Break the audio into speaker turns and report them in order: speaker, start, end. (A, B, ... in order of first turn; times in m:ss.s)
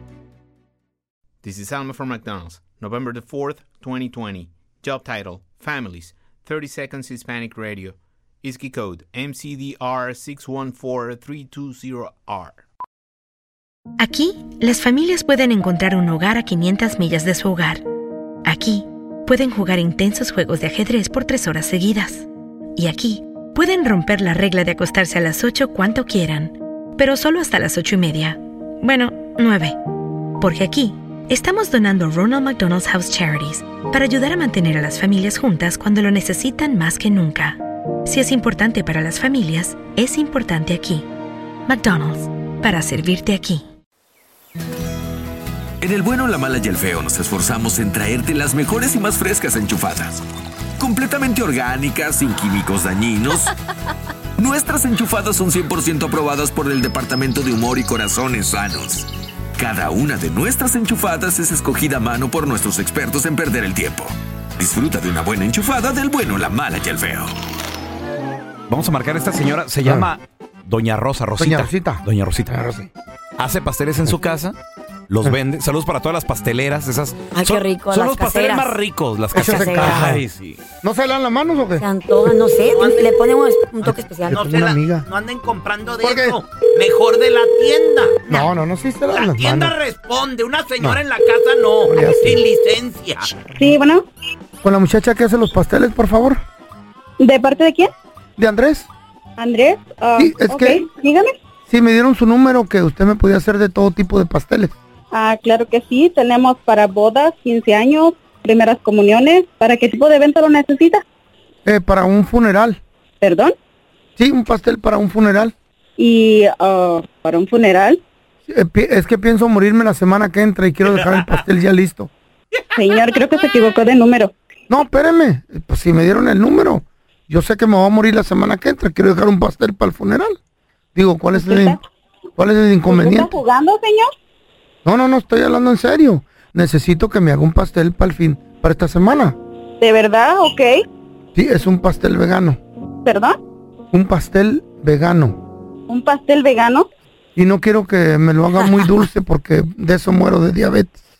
0:01.4-0:12.6 A
0:14.0-0:17.8 B
0:18.4-0:22.2 B
0:22.8-0:29.8 B
0:30.4-0:41.1 B
0:41.7-0:43.6 B
0:45.8-0:50.2 C
0:50.8-0:53.5 C
0:54.4-0:59.0 C
0:59.6-1:07.3 C
1:08.7-1:12.5 D
1:09.8-1:10.1 E
1:11.4-1:12.9 E
1:13.4-1:14.6 D
1:15.1-1:20.6 D
1:17.3-1:18.7 F
1:19.3-1:20.2 E
1:20.8-1:22.4 E
1:21.8-1:24.3 F
1:22.7-1:28.4 G
1:23.8-1:25.1 E
1:26.0-1:26.4 E
1:28.2-1:29.8 E
1:29.1-1:33.3 G
1:31.8-1:32.4 E
1:33.6-1:34.0 H
1:34.6-1:36.4 E
1:37.2-1:37.9 H
1:38.4-1:38.9 E
1:39.4-1:41.3 H
1:40.2-1:40.8 E
1:41.7-1:44.7 E
1:45.1-1:51.0 H
1:51.6-1:52.8 E
1:53.2-1:53.5 H
1:54.2-1:55.5 E
1:56.0-1:58.0 H
1:58.5-2:02.1 E
2:02.8-2:04.3 H
2:04.7-2:10.4 E
2:10.9-2:11.8 E
2:11.4-2:11.8 H
2:12.4-2:13.3 E
2:12.9-2:14.1 H
2:14.8-2:19.4 E
2:19.8-2:20.7 H
2:21.3-2:22.6 E
2:23.0-2:23.4 H
2:23.9-2:25.4 E
2:25.9-2:26.9 H
2:27.4-2:31.0 E